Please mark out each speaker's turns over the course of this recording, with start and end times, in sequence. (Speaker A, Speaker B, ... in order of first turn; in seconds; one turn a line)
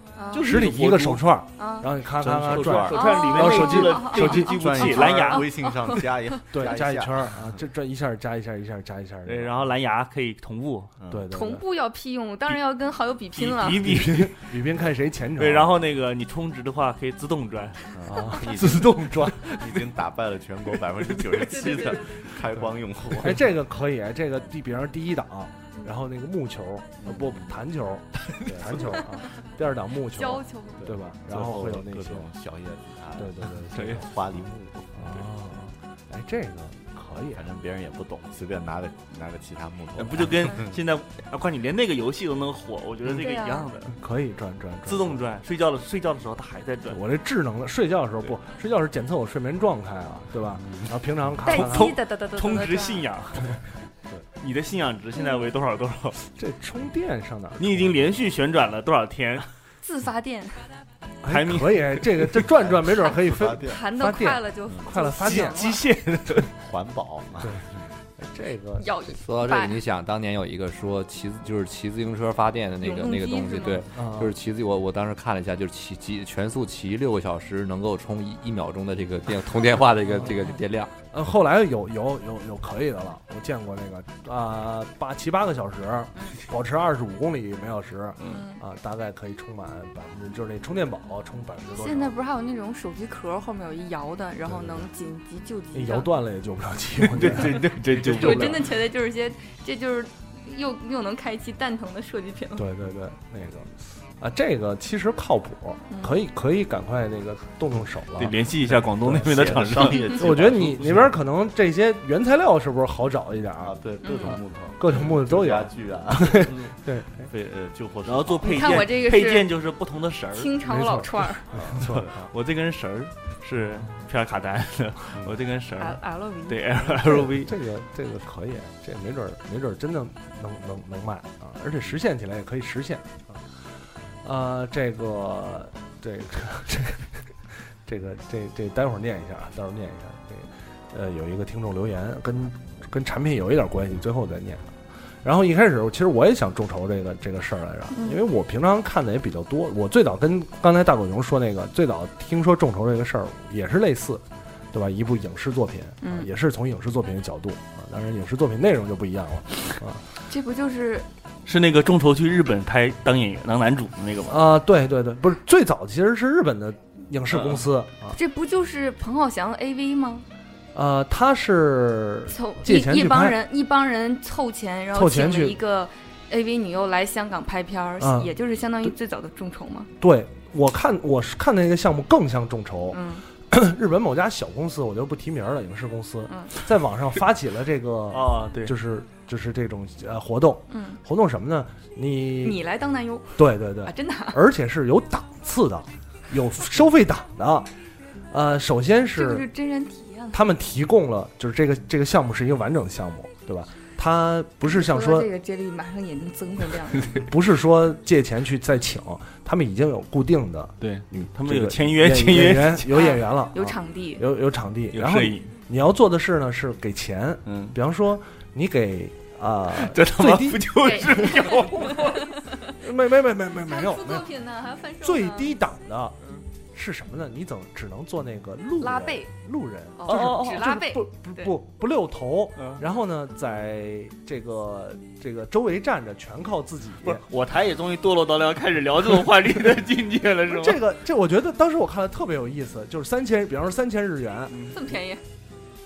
Speaker A: 0.1-0.5
Speaker B: 0.3-1.3
Speaker C: 0.4-4.8
Speaker A: 1.6-1.9
Speaker B: 2.2-5.5
Speaker D: 2.2-7.6
Speaker A: 2.9-6.4
Speaker C: 6.5-9.6
Speaker B: 9.2-10.9
Speaker D: 11.0-11.2
Speaker C: 11.1-11.6
Speaker A: 11.3-13.8
Speaker B: 13.3-14.6
Speaker C: 13.8-15.8
Speaker B: 15.4-18.0
Speaker D: 17.9-23.5
Speaker C: 18.1-19.5
Speaker B: 21.1-21.9
Speaker A: 21.5-22.1
Speaker C: 23.2-32.2
Speaker D: 27.0-27.5
Speaker D: 28.5-28.8
Speaker A: 30.1-30.9
Speaker D: 30.8-35.2
Speaker C: 33.1-34.0
Speaker B: 33.7-34.0
Speaker C: 34.9-37.4
Speaker D: 37.3-40.8
Speaker B: 40.0-43.9
Speaker A: 43.2-43.7
Speaker C: 43.9-45.2
Speaker B: 44.9-47.0
Speaker C: 46.9-51.9
Speaker A: 51.4-53.1
Speaker B: 51.4-53.6
Speaker B: 54.4-56.2
Speaker C: 56.3-57.9
Speaker B: 57.6-59.5
Speaker A: 59.8-60.7
Speaker C: 61.2-65.8
Speaker B: 61.3-62.5
Speaker D: 62.6-63.8
Speaker A: 63.6-65.8
Speaker B: 65.2-66.5
Speaker D: 66.4-67.8
Speaker C: 68.2-68.9
Speaker A: 68.8-69.8
Speaker E: 69.2-80.9
Speaker A: 72.8-73.8
Speaker C: 73.9-74.3
Speaker C: 80.1-80.5
Speaker C: 81.1-92.1
Speaker A: 88.3-88.6
Speaker A: 91.8-96.1
Speaker C: 94.5-94.9
Speaker C: 95.7-98.7
Speaker B: 97.0-98.7
Speaker A: 98.0-102.6
Speaker C: 102.5-113.8
Speaker A: 105.9-106.2
Speaker B: 108.2-110.2
Speaker D: 109.2-111.1
Speaker D: 113.6-118.9
Speaker A: 114.0-114.4
Speaker C: 114.8-117.3
Speaker B: 118.0-120.6
Speaker A: 118.4-119.5
Speaker A: 120.3-121.5
Speaker C: 120.6-122.2
Speaker D: 121.5-122.1
Speaker B: 121.8-127.5
Speaker A: 125.8-126.6
Speaker C: 126.9-133.4
Speaker C: 134.2-144.7
Speaker C: 145.2-160.0
Speaker A: 147.9-148.2
Speaker A: 156.0-156.3
Speaker A: 160.3-161.1
Speaker B: 161.4-164.6
Speaker C: 164.3-168.2
Speaker B: 167.3-167.6
Speaker A: 168.1-170.2
Speaker C: 170.7-173.4
Speaker A: 172.3-179.9
Speaker C: 174.9-175.6
Speaker C: 178.0-178.3
Speaker C: 180.0-192.6
Speaker A: 182.9-183.2
Speaker B: 188.1-188.7
Speaker A: 190.7-191.0
Speaker A: 192.4-194.4
Speaker C: 193.3-197.7
Speaker C: 198.3-199.5
Speaker A: 199.1-200.4
Speaker C: 200.3-205.3
Speaker A: 204.6-207.2
Speaker C: 207.1-221.3
Speaker B: 210.8-213.1
Speaker A: 212.9-214.2
Speaker B: 214.9-215.5
Speaker B: 217.4-217.7
Speaker B: 219.7-222.3
Speaker A: 220.8-222.7
Speaker C: 222.7-224.3
Speaker A: 223.6-225.6
Speaker C: 225.0-226.2
Speaker C: 226.7-237.2
Speaker A: 228.8-229.3
Speaker A: 230.0-231.5
Speaker B: 230.1-230.6
Speaker B: 232.6-232.8
Speaker B: 237.0-240.8
Speaker C: 240.5-244.7
Speaker B: 244.5-244.8
Speaker A: 244.7-245.2